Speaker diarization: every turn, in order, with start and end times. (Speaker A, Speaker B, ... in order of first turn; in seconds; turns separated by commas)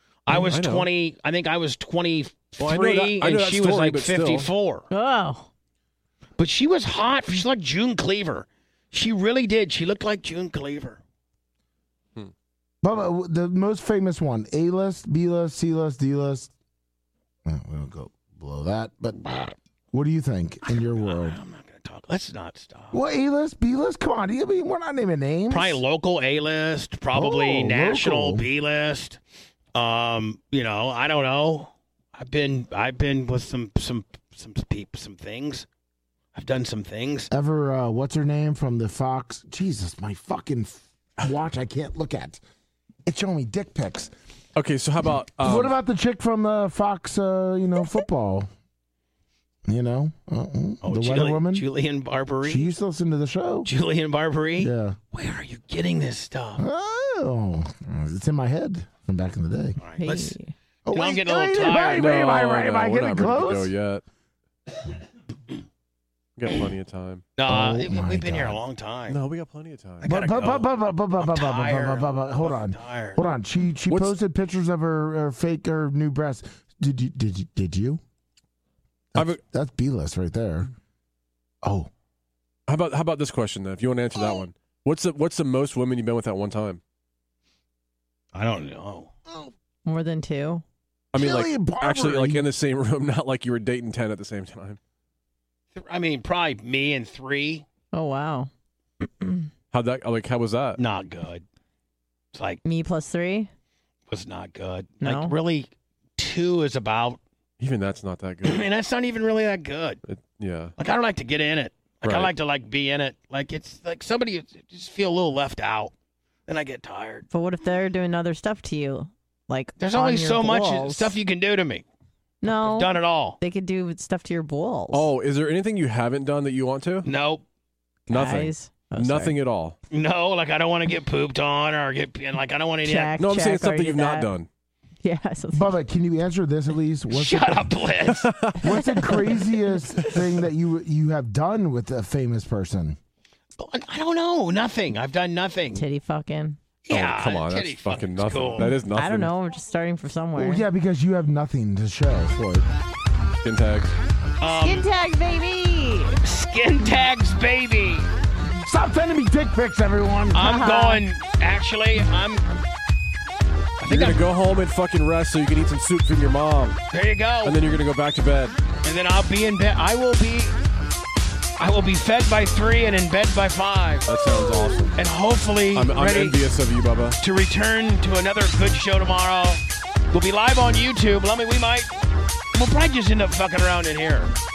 Speaker A: 0.3-4.9, Speaker B: 0.3-0.9, Speaker B: 2.6-4.5, Speaker C: 4.9-5.5, Speaker A: 6.4-11.0, Speaker D: 12.8-16.5, Speaker D: 17.4-21.4, Speaker A: 20.6-23.0, Speaker D: 22.9-25.8, Speaker A: 25.5-29.2, Speaker D: 27.1-28.5, Speaker A: 29.7-35.7, Speaker A: 36.3-37.3, Speaker D: 37.3-42.4, Speaker D: 43.0-44.1, Speaker B: 44.5-45.7, Speaker D: 45.4-48.5, Speaker D: 49.6-51.6, Speaker A: 50.8-52.7, Speaker D: 52.4-53.7, Speaker A: 53.6-56.6, Speaker D: 54.6-55.0, Speaker D: 56.6-59.8, Speaker A: 59.8-60.4, Speaker C: 60.0-60.5, Speaker D: 60.9-63.7, Speaker A: 60.9-62.1, Speaker B: 61.9-64.0, Speaker B: 66.4-67.3, Speaker A: 67.4-69.2, Speaker D: 67.5-68.6, Speaker B: 69.1-70.0, Speaker A: 70.0-73.2, Speaker D: 70.0-78.0, Speaker B: 73.9-74.2, Speaker D: 79.1-80.7, Speaker D: 81.6-81.9, Speaker B: 82.7-86.8, Speaker A: 88.3-89.1, Speaker C: 89.8-90.6, Speaker B: 91.1-94.8, Speaker D: 91.1-92.4, Speaker A: 95.7-97.7, Speaker C: 97.9-98.5, Speaker C: 99.0-99.5, Speaker B: 99.7-100.8, Speaker A: 100.8-101.4, Speaker A: 102.3-102.6, Speaker C: 102.6-103.5, Speaker A: 104.1-107.2, Speaker C: 105.0-105.3, Speaker B: 107.6-108.7, Speaker A: 108.4-110.0, Speaker B: 110.1-110.7, Speaker A: 110.8-115.9, Speaker B: 112.0-112.3, Speaker A: 116.5-117.2, Speaker C: 117.3-121.1, Speaker A: 119.8-121.8, Speaker C: 122.4-125.1, Speaker A: 122.4-123.4, Speaker B: 124.9-127.1, Speaker A: 127.0-127.4, Speaker C: 128.1-129.3, Speaker B: 128.1-129.8, Speaker A: 129.9-133.1, Speaker C: 132.8-134.3, Speaker B: 133.2-134.5, Speaker C: 135.0-135.7, Speaker D: 135.5-137.7, Speaker A: 137.1-138.3, Speaker B: 138.1-138.7, Speaker D: 138.6-143.0, Speaker C: 138.7-139.8, Speaker A: 143.6-145.8, Speaker C: 145.7-146.6, Speaker A: 146.8-148.8, Speaker B: 146.9-149.3, Speaker C: 148.9-150.6, Speaker D: 150.4-152.7, Speaker B: 153.4-153.9, Speaker A: 154.4-154.8, Speaker C: 154.5-156.2, Speaker A: 156.2-158.1, Speaker D: 158.6-160.6, Speaker A: 160.3-162.4, Speaker C: 160.4-161.0, Speaker A: 163.8-164.2, Speaker B: 163.9-166.8, Speaker A: 166.9-167.6, Speaker B: 167.4-168.6, Speaker A: 168.8-170.6, Speaker A: 171.6-174.1, Speaker B: 174.1-175.0, Speaker A: 174.9-176.4, Speaker B: 175.7-177.2, Speaker A: 177.2-181.9, Speaker A: 182.5-184.3